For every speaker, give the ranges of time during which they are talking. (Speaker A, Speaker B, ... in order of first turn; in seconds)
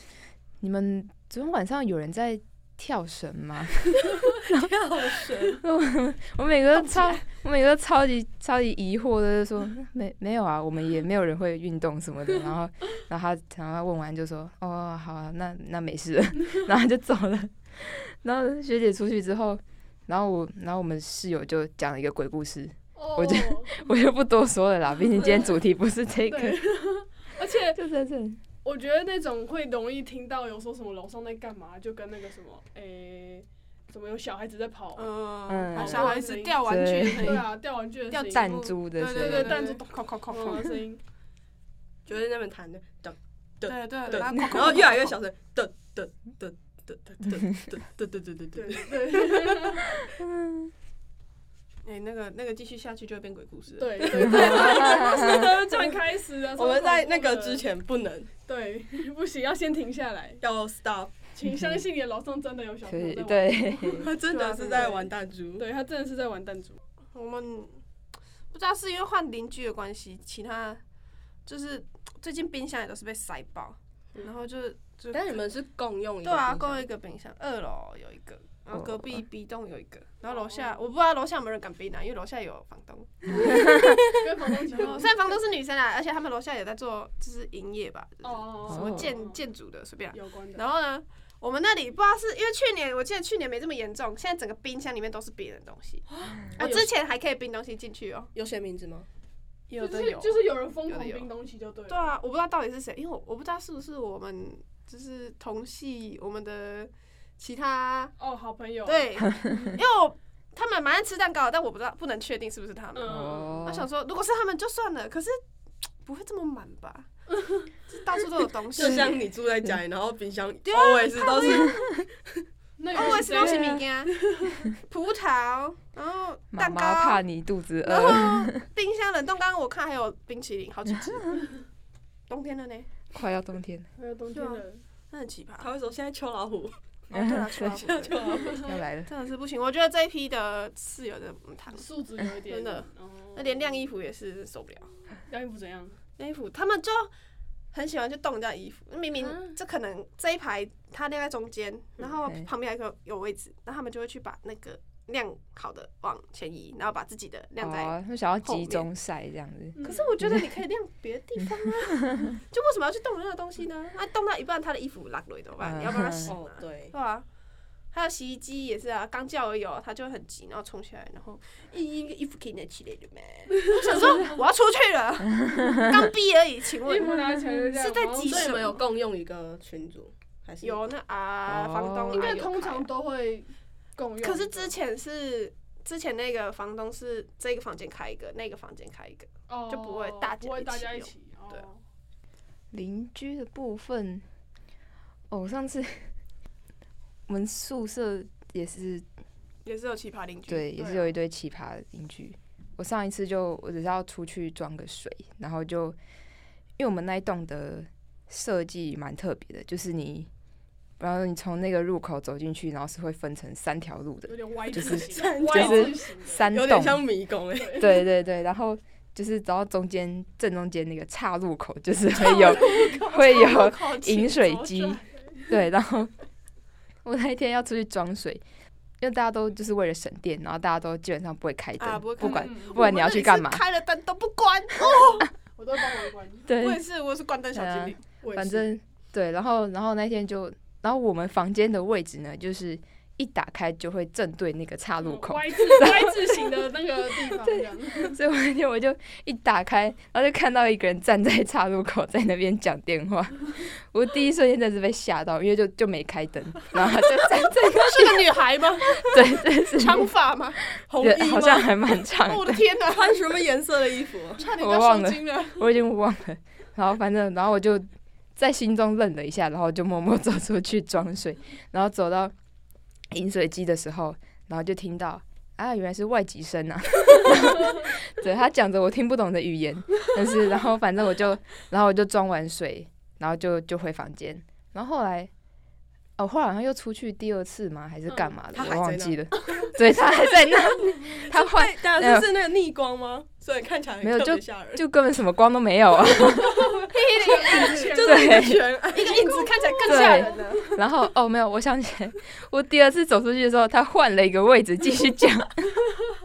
Speaker A: 0.6-4.7, 5.5-26.6, 27.7-28.4, 35.5-37.5, 38.3-39.6, 54.3-55.6, 62.9-64.1, 78.7-79.2, 88.7-89.1, 113.1-113.9, 123.4-123.8, 126.5-128.6, 133.1-133.9, 137.1-137.7, 138.6-139.1, 157.6-160.4, 165.6-166.3, 175.4-176.0, 181.5-182.3, 192.7-194.2, 195.3-196.1, 197.3-199.0, 200.5-206.0, 206.8-210.3, 211.0-217.0, 217.8-226.1, 227.0-228.4, 229.0-233.6, 236.4-236.8, 237.5-246.5, 247.2-258.3, 258.9-260.1, 260.7-262.6, 264.6-272.3, 273.1-285.3, 286.2-292.3, 294.0-296.8, 298.0-298.6, 299.8-305.8
Speaker B: 4.5-5.6, 42.0-49.6, 54.0-56.0, 56.5-58.3, 60.4-61.1, 63.9-65.7, 75.1-76.9, 98.3-99.1, 118.7-122.0, 135.6-138.7, 166.2-166.9, 178.3-180.8, 214.7-217.9, 260.9-261.7, 262.9-264.4, 288.5-294.8, 296.3-299.5
Speaker C: 6.7-7.2, 35.0-37.5, 38.1-40.7, 43.6-45.1, 51.8-54.8, 64.3-65.0, 67.1-67.8, 68.5-70.8, 71.5-75.4, 76.2-84.2, 84.7-98.3, 99.7-101.3, 101.9-108.1, 108.8-115.3, 116.0-117.1, 117.9-119.2, 120.6-121.8, 122.9-124.2, 124.7-127.2, 127.8-131.5, 132.3-132.9, 134.3-135.7, 137.1-141.8, 142.4-144.9, 146.2-147.1, 147.7-158.8, 159.8-167.2, 167.9-178.8, 180.6-182.9, 184.2-191.6, 199.6-200.8, 222.1-225.0, 231.8-235.3, 236.6-238.6, 256.8-260.6, 262.1-263.2, 264.5-265.4, 296.9-298.2, 298.9-300.7
Speaker D: 22.9-23.9, 25.1-25.5, 26.3-27.8, 28.6-35.1, 35.7-41.0, 48.5-49.9, 53.8-57.6, 58.5-60.4, 61.3-65.0, 65.6-66.8, 80.3-80.8, 83.3-85.2, 88.2-89.4, 90.1-90.6, 96.1-96.9, 99.8-102.1, 108.2-109.2, 112.9-113.7, 117.4-117.6, 122.8-124.7, 134.0-134.8, 141.7-143.7, 145.3-146.0, 159.8-160.1, 173.6-174.4, 176.8-178.8, 182.1-184.7, 189.5-191.8, 200.8-201.0, 214.3-216.4, 217.5-218.0, 225.0-225.6, 232.2-232.9, 235.5-236.4, 245.0-248.2, 264.4-265.6, 296.8-298.5, 299.0-300.8